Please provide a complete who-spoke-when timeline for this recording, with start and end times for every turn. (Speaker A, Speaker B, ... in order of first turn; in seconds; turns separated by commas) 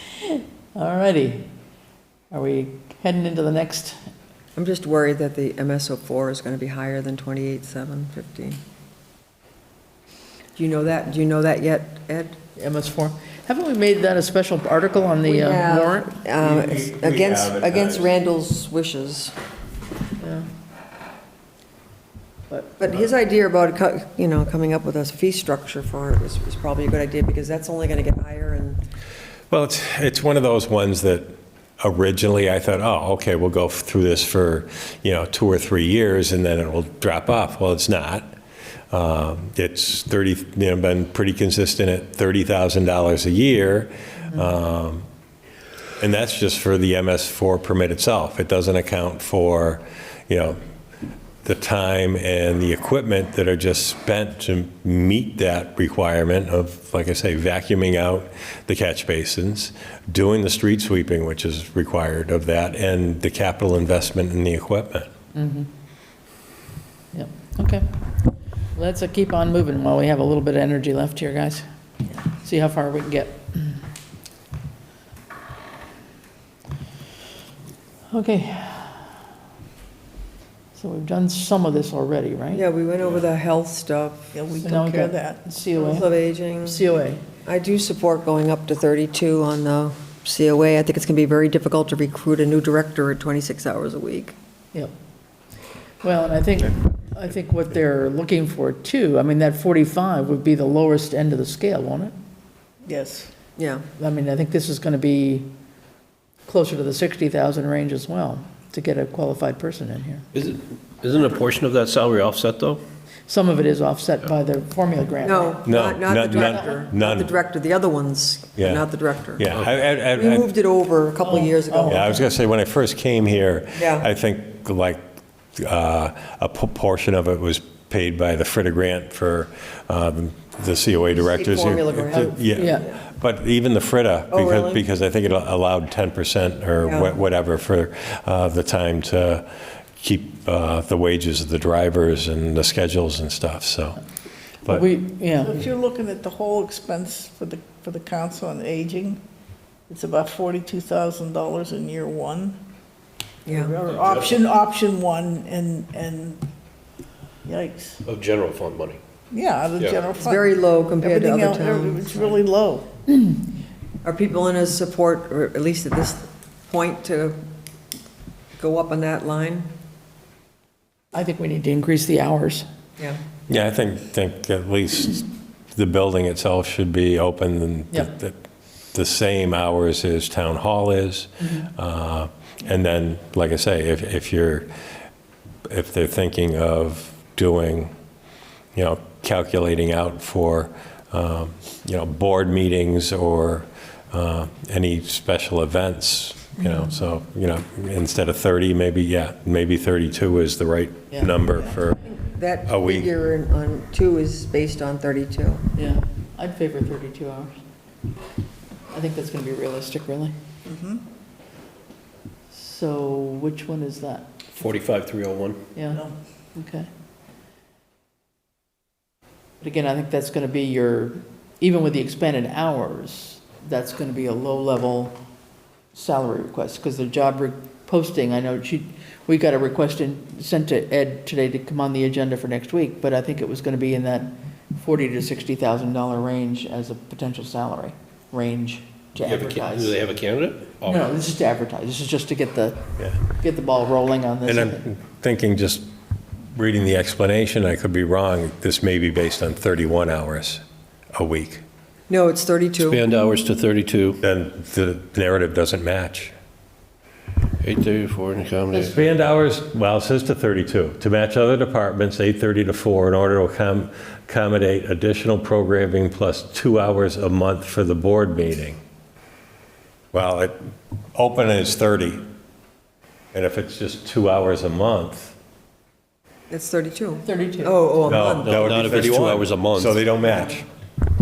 Speaker A: 0.2-1.5, Speaker A: 2.3-4.0, Speaker B: 4.6-8.6, Speaker B: 10.6-12.4, Speaker A: 12.6-16.1, Speaker B: 15.2-19.4, Speaker C: 16.4-18.1, Speaker A: 20.2-20.5, Speaker A: 22.5-22.8, Speaker B: 22.8-28.8, Speaker C: 29.5-38.3, Speaker C: 38.9-45.1, Speaker C: 46.0-50.6, Speaker C: 51.4-65.1, Speaker A: 65.3-65.7, Speaker A: 67.1-68.0, Speaker A: 68.8-71.7, Speaker A: 72.3-73.8, Speaker A: 78.1-79.2, Speaker A: 80.7-82.6, Speaker B: 82.5-84.3, Speaker D: 84.3-85.4, Speaker A: 84.6-86.1, Speaker B: 85.8-86.9, Speaker A: 86.6-87.2, Speaker B: 87.5-94.3, Speaker A: 96.0-102.1, Speaker D: 102.9-103.3, Speaker B: 103.6-103.8, Speaker A: 104.0-105.5, Speaker A: 106.5-110.3, Speaker E: 110.3-112.8, Speaker A: 113.3-115.7, Speaker B: 115.2-119.4, Speaker C: 115.7-117.3, Speaker C: 118.6-120.5, Speaker B: 120.1-122.2, Speaker A: 121.3-122.1, Speaker C: 121.9-144.0, Speaker B: 123.8-124.1, Speaker B: 131.2-132.9, Speaker A: 132.5-132.9, Speaker B: 134.3-134.8, Speaker B: 136.8-137.1, Speaker A: 144.7-145.6, Speaker D: 145.4-149.2, Speaker D: 149.9-152.6, Speaker B: 153.5-153.7, Speaker D: 153.5-156.4, Speaker E: 153.9-154.4, Speaker D: 157.4-158.0, Speaker E: 158.1-159.0, Speaker D: 159.3-162.9, Speaker E: 159.8-160.1, Speaker B: 160.2-162.4, Speaker B: 164.0-167.4, Speaker B: 168.6-169.7, Speaker A: 171.1-172.7, Speaker C: 173.5-178.4, Speaker C: 178.9-184.7, Speaker A: 181.4-181.7, Speaker C: 185.7-187.9, Speaker C: 188.8-202.1, Speaker A: 201.1-201.4, Speaker B: 202.1-205.7, Speaker C: 202.7-203.1, Speaker A: 205.8-207.6, Speaker A: 208.9-210.3, Speaker D: 210.7-211.0, Speaker A: 212.5-214.6, Speaker E: 214.6-215.6, Speaker A: 215.8-216.0, Speaker A: 216.6-216.9, Speaker A: 219.6-225.2, Speaker A: 225.9-240.0, Speaker E: 239.2-241.1, Speaker A: 240.9-244.9, Speaker C: 244.5-245.9, Speaker C: 246.5-250.6, Speaker C: 251.2-251.6, Speaker B: 252.1-253.0, Speaker E: 252.8-254.2, Speaker C: 254.2-256.4, Speaker E: 257.6-259.1, Speaker C: 258.8-268.8, Speaker C: 270.1-270.6, Speaker C: 271.1-272.2, Speaker C: 273.3-275.4, Speaker B: 276.5-278.8, Speaker A: 277.3-277.8, Speaker C: 278.0-280.7, Speaker E: 278.4-280.0, Speaker B: 280.2-280.6